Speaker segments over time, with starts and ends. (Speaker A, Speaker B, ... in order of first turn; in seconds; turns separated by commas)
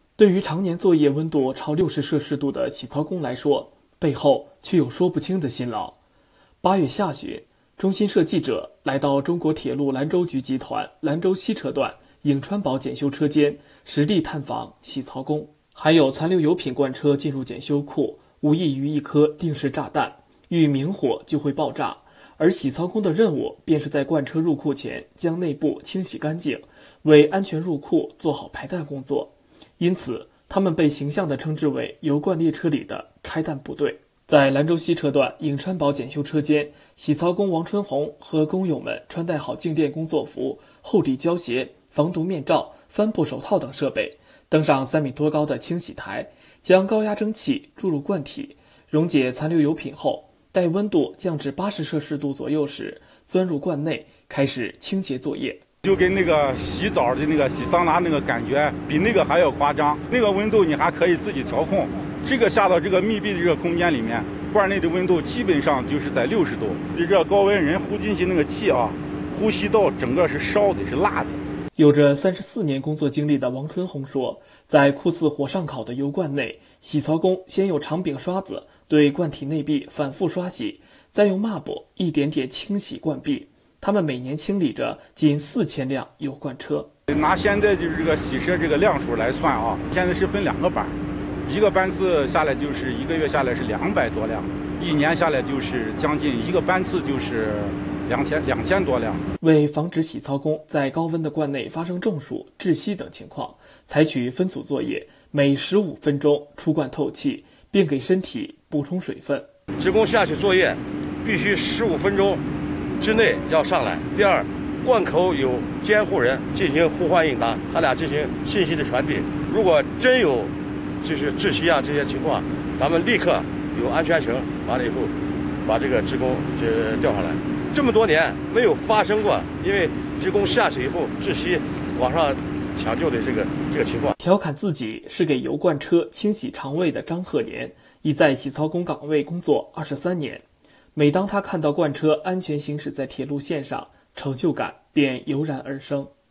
Speaker A: 0.2-6.0, Speaker A: 6.6-55.6, Speaker B: 55.8-71.4, Speaker A: 71.8-86.9, Speaker B: 87.1-99.2, Speaker A: 99.4-109.5, Speaker C: 109.8-112.4, Speaker C: 113.0-125.1, Speaker C: 125.6-134.1, Speaker A: 134.2-140.4, Speaker A: 140.9-146.1